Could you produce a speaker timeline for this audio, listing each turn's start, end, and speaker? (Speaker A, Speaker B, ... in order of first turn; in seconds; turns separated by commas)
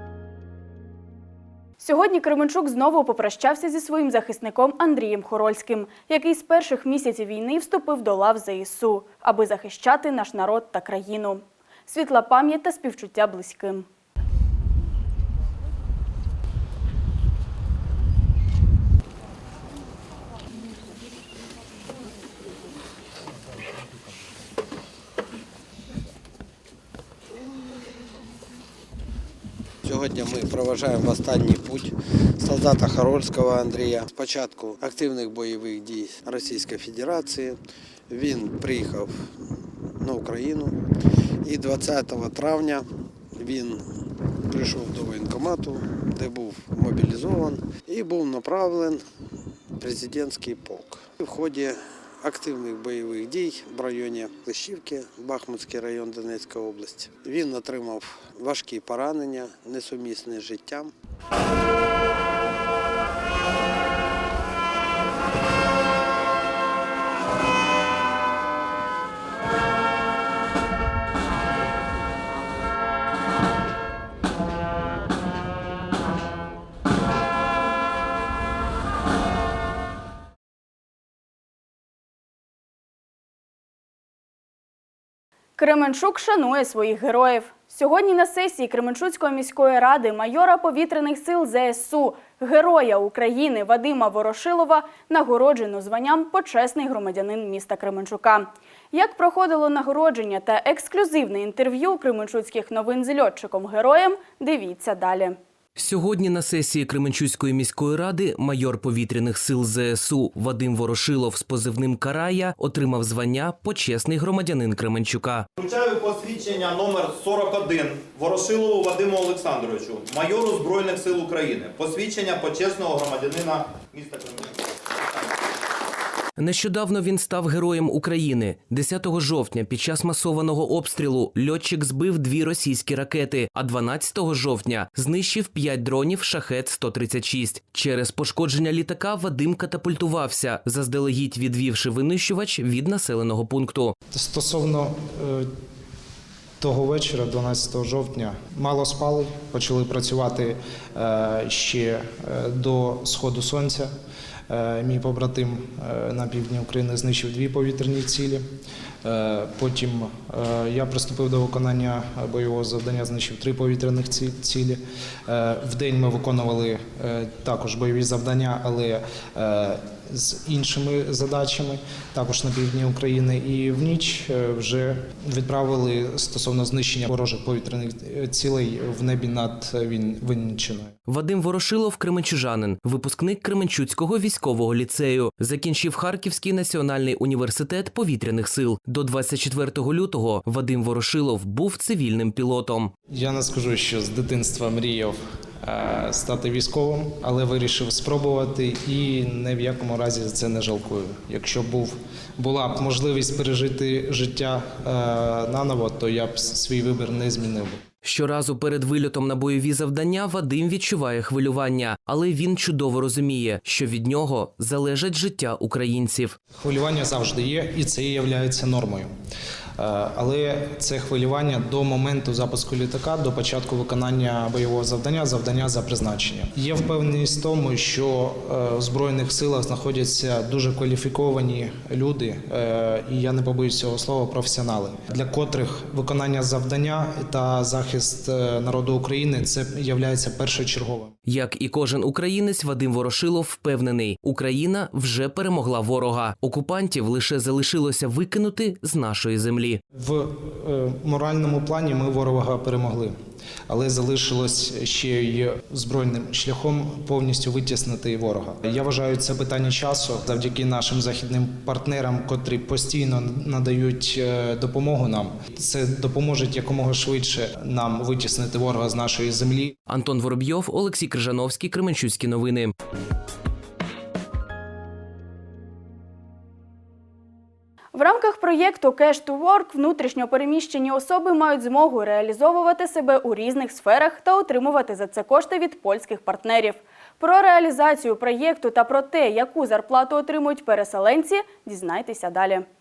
Speaker A: 1.8-13.9, Speaker B: 29.8-39.3, Speaker B: 40.0-40.8, Speaker B: 41.4-43.8, Speaker B: 44.5-49.0, Speaker B: 49.8-60.9, Speaker A: 85.6-105.4, Speaker C: 105.8-115.5, Speaker D: 115.6-124.4, Speaker C: 126.4-143.9, Speaker E: 144.1-145.5, Speaker E: 146.6-153.9, Speaker E: 154.5-158.4, Speaker E: 159.0-180.9, Speaker C: 181.1-192.9, Speaker E: 193.1-207.8, Speaker C: 208.0-216.4, Speaker E: 216.5-219.1, Speaker E: 219.8-241.1, Speaker C: 241.3-249.8, Speaker E: 249.9-253.1, Speaker E: 253.7-269.7, Speaker C: 269.9-272.7, Speaker A: 277.9-292.6